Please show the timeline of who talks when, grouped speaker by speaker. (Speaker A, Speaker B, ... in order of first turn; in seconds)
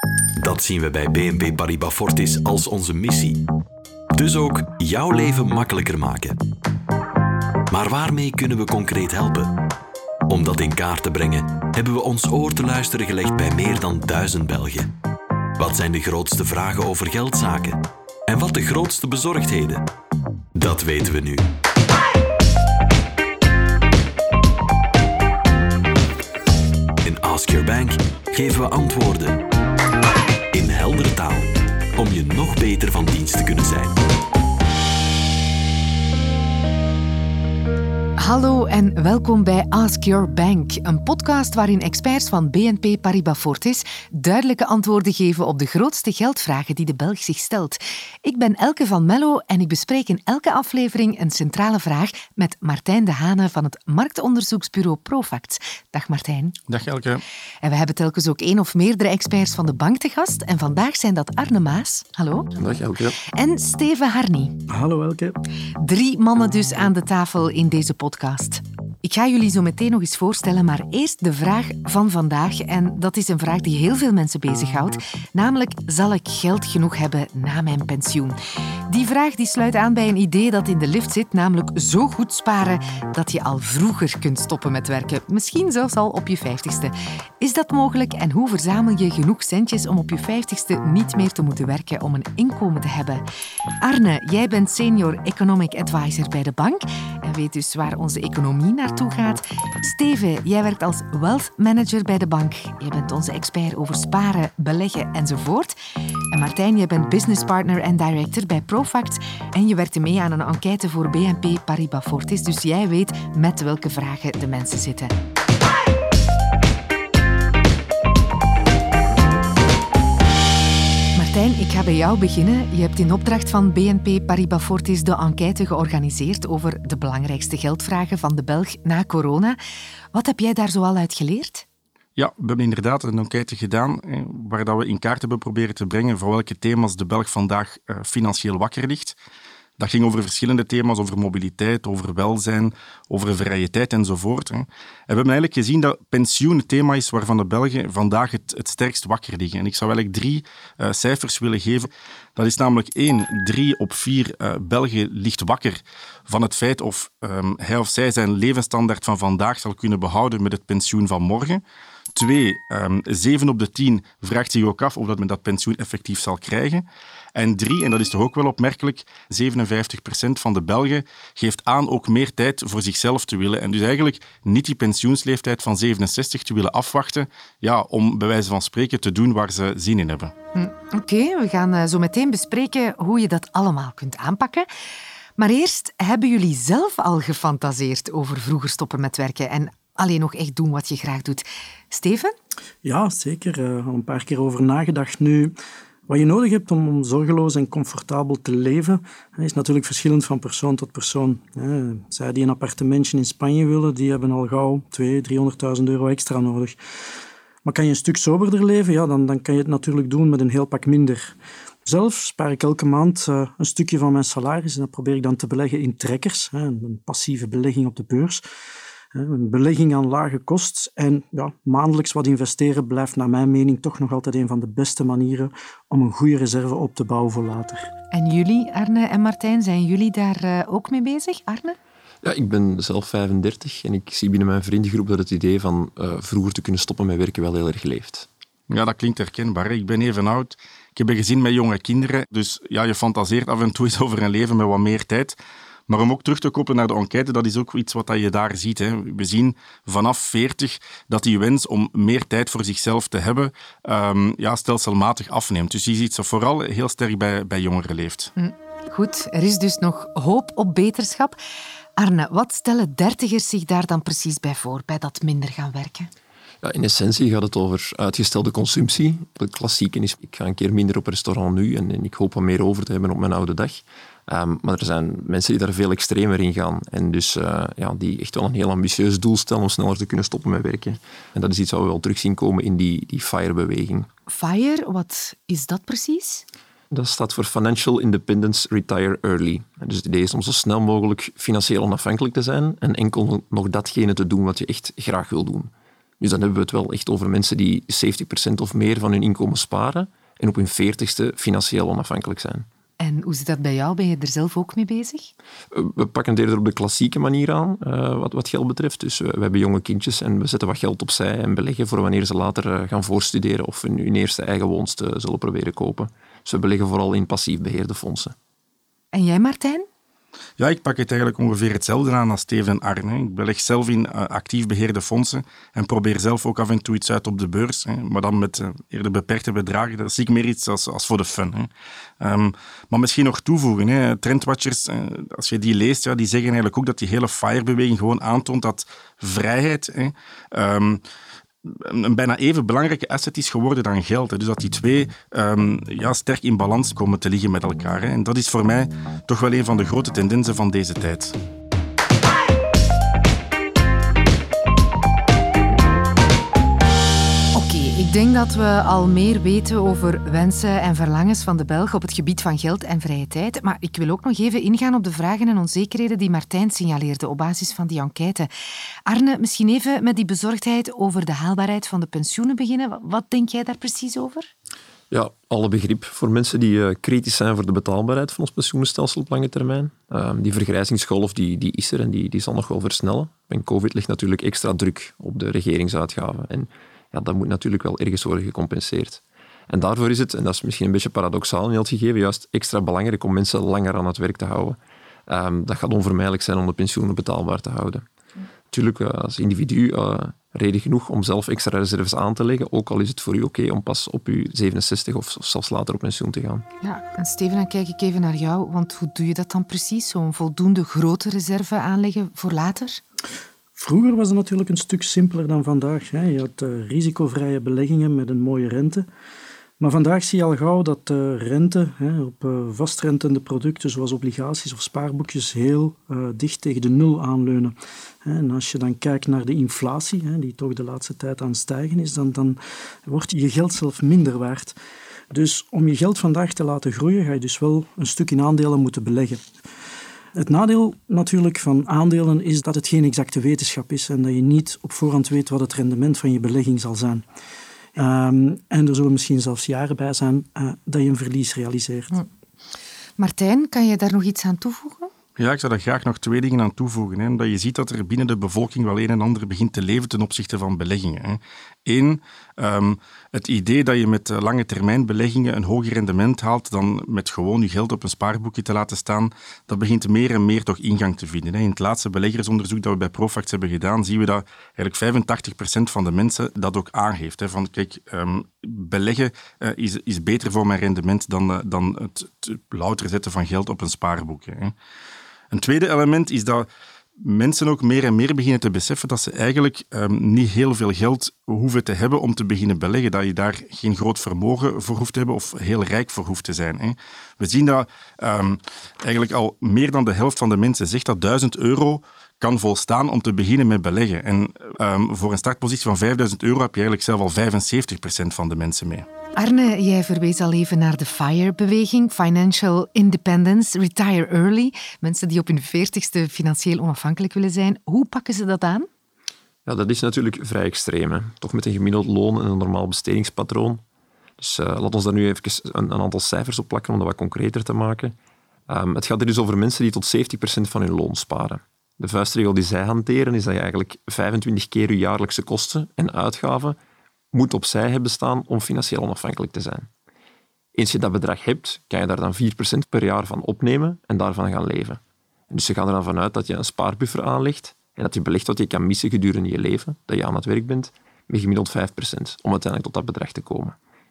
Speaker A: 0.4-3.5, 4.1-6.4, 7.7-9.5, 10.3-14.9, 15.6-19.8, 20.6-21.4, 27.0-29.4, 30.5-34.0
Speaker B: 38.2-56.6, 57.6-62.6, 63.2-64.6, 65.8-78.4, 78.9-93.2, 93.8-105.8, 106.3-115.1, 121.1-129.6, 130.1-131.7, 180.5-184.7, 185.4-192.3, 228.1-231.8, 258.4-261.4, 262.0-266.1, 284.3-286.4, 303.0-305.3, 319.1-319.9, 357.5-368.5, 369.1-374.5, 406.8-413.0, 453.2-455.1, 509.4-518.9
Speaker C: 56.7-57.2, 132.2-139.2, 139.8-161.6, 162.2-180.3, 238.7-245.4, 245.9-258.3, 320.6-341.0, 341.6-351.4, 455.4-484.8, 485.5-486.7, 487.2-509.1
Speaker D: 62.6-63.2, 232.2-238.3, 266.6-284.1, 286.9-302.6, 305.7-318.3, 375.1-398.0, 398.7-406.6, 519.6-523.8, 524.4-528.1, 528.7-536.8, 537.3-539.9, 540.8-553.8
Speaker E: 64.7-65.4, 192.8-195.5, 196.1-206.8, 207.6-211.3, 211.8-218.4, 219.1-227.9, 413.8-419.1, 419.8-434.8, 435.3-439.4, 440.3-447.2, 447.9-452.1